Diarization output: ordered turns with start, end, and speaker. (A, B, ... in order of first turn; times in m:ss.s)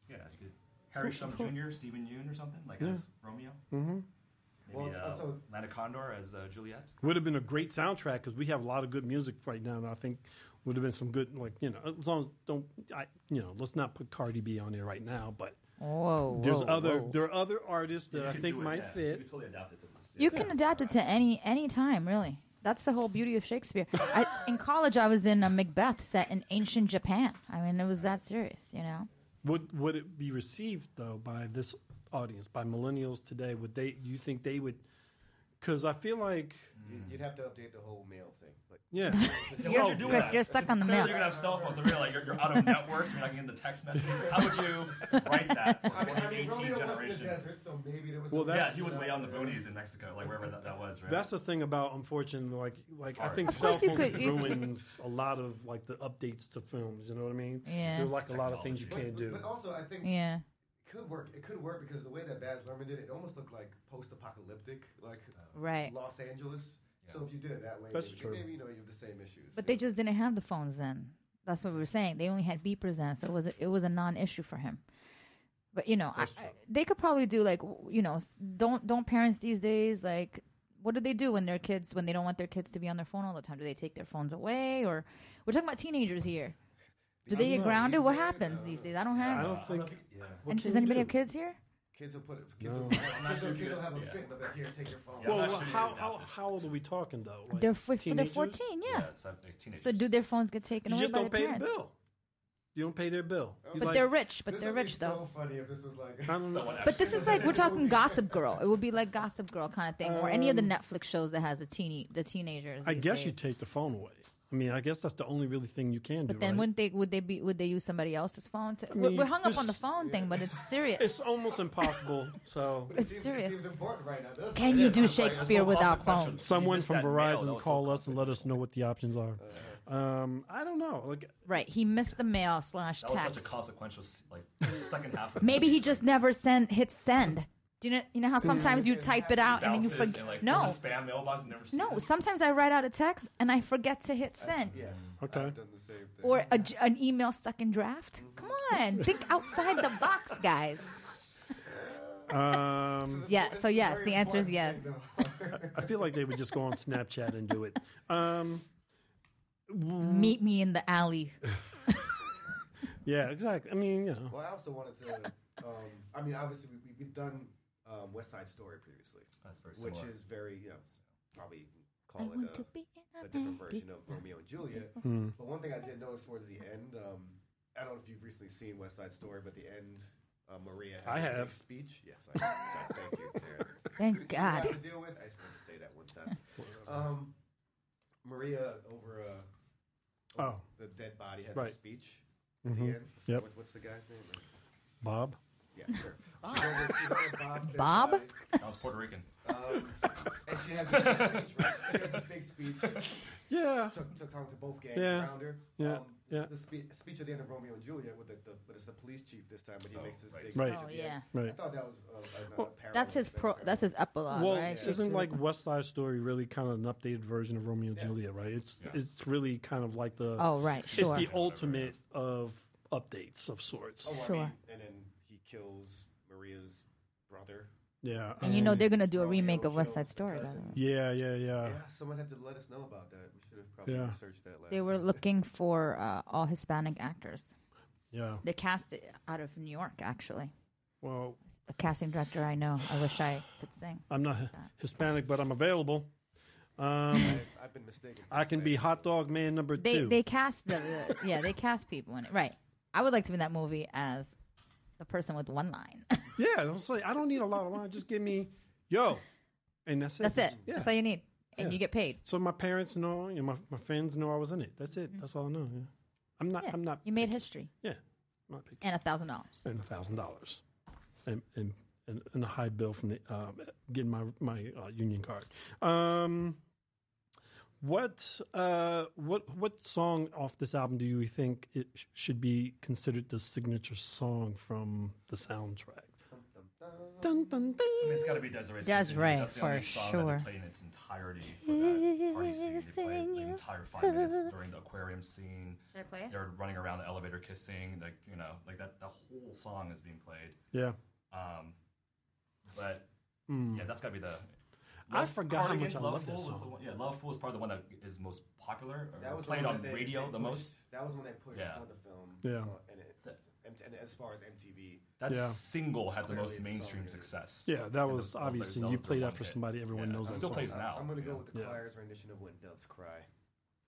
0:00.1-0:03.6 A
0:03.7-0:04.1 B
0:04.7-0:06.9 A
0:04.7-0:05.4 C
0:07.0-0:15.6 B
0:15.8-0:17.2 D
0:16.3-0:19.3 B
0:18.1-0:21.0 A
0:20.2-0:29.1 D
0:29.4-0:34.8 B
0:35.6-0:36.7 B
0:36.8-0:37.2 A
0:36.8-0:42.5 C
0:38.9-0:40.4 B
0:39.1-0:41.3 D
0:39.6-0:47.4 A
0:45.9-0:49.7 C
0:48.3-0:48.9 B
0:48.5-0:51.3 A
0:51.1-0:59.5 B
0:53.1-0:54.7 A
0:53.5-0:54.6 D
0:57.7-0:58.1 D
0:57.8-0:59.1 A
0:58.9-1:00.2 C
1:00.0-1:00.4 D
1:00.8-1:09.8 C
1:05.5-1:05.9 D
1:07.9-1:08.5 B
1:09.6-1:14.8 D
1:15.7-1:26.6 D
1:16.2-1:16.5 B
1:27.2-1:29.0 C
1:27.3-1:29.5 D
1:27.3-1:28.0 B
1:29.2-1:30.5 A
1:29.3-1:31.1 B
1:30.5-1:31.6 D
1:31.9-1:36.0 C
1:32.6-1:33.1 B
1:32.9-1:34.3 A
1:35.2-1:36.7 A
1:35.2-1:38.6 B
1:37.5-1:39.1 D
1:38.8-1:40.1 A
1:39.8-1:41.7 D
1:40.8-1:42.0 B
1:42.8-1:44.1 B
1:43.6-1:48.6 C
1:43.7-1:45.2 D
1:46.3-1:46.8 B
1:46.4-1:48.0 A
1:46.8-1:53.4 D
1:50.0-1:50.7 B
1:52.8-1:56.7 B
1:56.3-2:01.3 D
1:58.9-1:59.8 B
1:59.9-2:00.6 C
2:01.0-2:02.9 B
2:02.9-2:06.2 C
2:02.9-2:03.6 D
2:04.5-2:06.4 D
2:04.6-2:08.6 A
2:06.4-2:11.4 B
2:09.4-2:09.8 C
2:11.5-2:13.5 D
2:13.0-2:16.0 A
2:15.4-2:20.8 D
2:18.4-2:20.8 C
2:18.4-2:18.9 B
2:19.5-2:22.1 A
2:21.7-2:24.7 D
2:24.4-2:26.6 C
2:24.7-2:25.2 A
2:25.2-2:25.6 B
2:26.2-2:30.9 D
2:28.2-2:28.7 C
2:31.5-2:36.1 C
2:32.3-2:33.3 B
2:33.3-2:34.9 D
2:35.5-2:38.7 B
2:39.7-2:40.4 B
2:40.0-2:41.4 D
2:43.0-2:44.4 B
2:44.3-2:52.7 C
2:49.4-2:50.2 A
2:52.2-2:54.9 D
2:53.2-3:07.4 C
2:55.0-2:55.4 B
3:01.0-3:01.6 B
3:02.5-3:03.6 B
3:04.0-3:04.8 D
3:06.6-3:07.1 B
3:08.2-3:09.5 C
3:10.3-3:14.5 C
3:10.4-3:10.6 B
3:12.6-3:13.5 B
3:15.0-3:15.4 B
3:15.7-3:18.6 C
3:17.6-3:18.3 D
3:18.6-3:19.3 A
3:19.4-3:23.2 C
3:20.9-3:22.3 A
3:23.5-3:24.0 B
3:23.8-3:35.2 C
3:24.9-3:26.5 B
3:29.9-3:30.6 A
3:30.5-3:31.6 B
3:30.6-3:31.3 D
3:32.9-3:35.3 D
3:34.3-3:44.2 B
3:40.4-3:41.3 D
3:40.8-3:41.9 A
3:44.0-3:47.7 C
3:44.1-3:44.5 D
3:48.0-3:48.9 B
3:48.4-3:50.8 D
3:48.4-3:50.8 C
3:50.8-3:51.8 B
3:51.6-3:55.2 C
3:53.8-3:54.2 B
3:54.7-3:57.5 D
3:58.1-3:58.4 B
3:58.4-4:00.5 D
4:01.0-4:01.4 B
4:01.7-4:04.7 D
4:04.1-4:06.1 B
4:06.8-4:07.5 B
4:07.1-4:09.2 C
4:08.3-4:10.2 B
4:09.8-4:14.4 D
4:15.0-4:16.4 D
4:16.4-4:19.2 B
4:19.8-4:21.0 B
4:20.2-4:22.2 D
4:21.6-4:28.8 B
4:26.6-4:27.7 D
4:28.8-4:29.8 D
4:29.6-4:30.6 B
4:31.3-4:36.6 B
4:37.8-4:46.2 B
4:46.3-4:47.6 C
4:47.2-4:48.4 B
4:48.0-5:00.6 A
4:48.8-4:50.5 D
4:51.7-4:53.6 D
4:54.2-4:54.4 D
4:55.9-4:56.4 D
5:00.7-5:01.0 B
5:01.3-5:01.8 A
5:02.7-5:03.1 A
5:03.5-5:03.9 B
5:03.6-5:04.5 A
5:05.1-5:10.8 A
5:05.1-5:06.8 B
5:09.2-5:15.1 C
5:11.5-5:11.9 A
5:12.4-5:12.7 B
5:15.2-5:21.4 A
5:15.3-5:15.6 B
5:16.2-5:17.3 C
5:17.7-5:20.8 B
5:20.2-5:23.3 C
5:21.5-5:21.8 B